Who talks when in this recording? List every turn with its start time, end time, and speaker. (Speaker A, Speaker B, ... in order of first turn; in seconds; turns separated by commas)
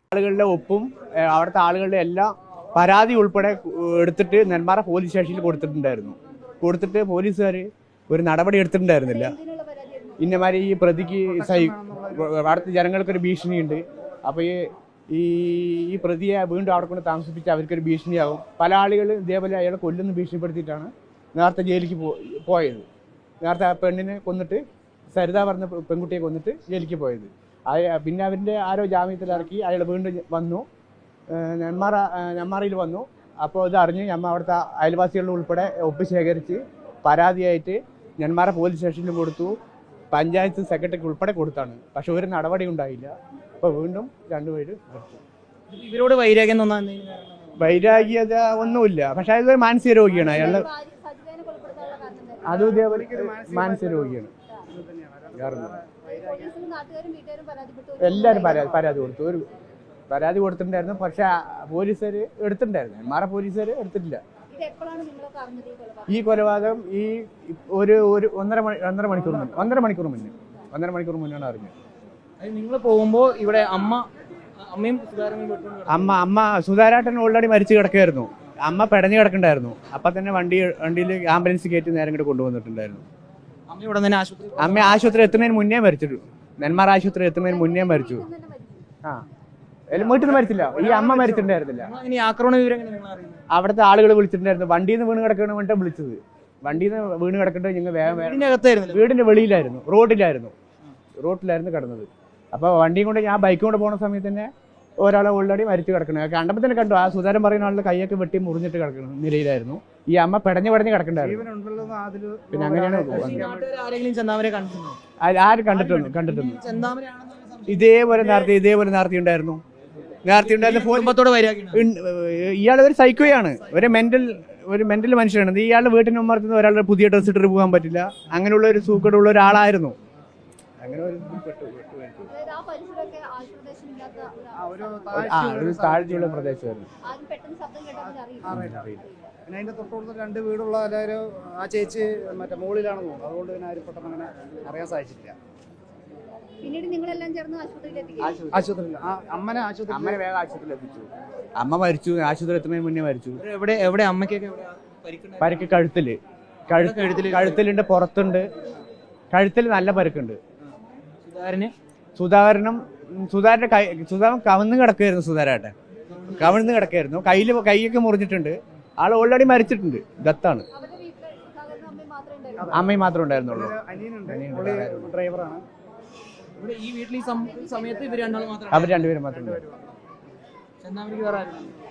Speaker A: 0.1-9.4, Speaker B: 9.1-10.3, Speaker A: 10.2-22.9, Speaker C: 11.3-12.3, Speaker A: 23.4-30.6, Speaker A: 31.3-39.5, Speaker A: 40.1-45.2, Speaker D: 45.7-47.6, Speaker A: 47.6-50.7, Speaker B: 50.3-52.6, Speaker A: 52.5-54.3, Speaker C: 52.5-56.5, Speaker A: 55.4-55.8, Speaker B: 56.1-58.7, Speaker A: 58.0-59.5, Speaker A: 60.1-64.2, Speaker B: 64.5-66.1, Speaker A: 66.1-71.7, Speaker D: 72.4-74.1, Speaker D: 74.6-76.1, Speaker A: 75.9-83.0, Speaker D: 83.7-85.0, Speaker A: 84.6-88.3, Speaker B: 87.5-88.9, Speaker A: 89.9-91.9, Speaker D: 90.0-93.4, Speaker A: 93.5-100.5, Speaker D: 98.1-99.1, Speaker A: 101.2-104.5, Speaker A: 105.0-111.5, Speaker C: 111.2-113.7, Speaker A: 112.5-113.5, Speaker D: 113.1-115.0, Speaker A: 115.2-116.6, Speaker D: 115.7-118.5, Speaker A: 117.7-119.6, Speaker A: 120.2-121.2, Speaker D: 120.5-121.8, Speaker A: 121.7-129.9, Speaker A: 130.8-132.3, Speaker B: 132.3-135.1, Speaker C: 134.6-136.5, Speaker A: 135.2-136.9, Speaker B: 137.0-139.0, Speaker C: 138.4-138.9, Speaker A: 138.6-139.0, Speaker C: 139.5-145.4, Speaker B: 146.6-148.4, Speaker A: 148.2-148.6, Speaker C: 148.5-150.2, Speaker A: 149.9-153.4, Speaker D: 153.4-155.6, Speaker A: 155.4-156.2, Speaker A: 156.7-158.5, Speaker D: 156.7-157.6, Speaker A: 159.3-160.4, Speaker D: 161.3-161.7, Speaker A: 162.2-165.7, Speaker A: 166.3-170.7, Speaker B: 170.7-172.7, Speaker C: 172.6-172.9, Speaker A: 172.7-173.8, Speaker C: 173.5-175.6, Speaker A: 174.3-175.2, Speaker D: 176.6-179.2, Speaker A: 178.7-179.6, Speaker C: 179.3-179.7, Speaker D: 180.8-181.7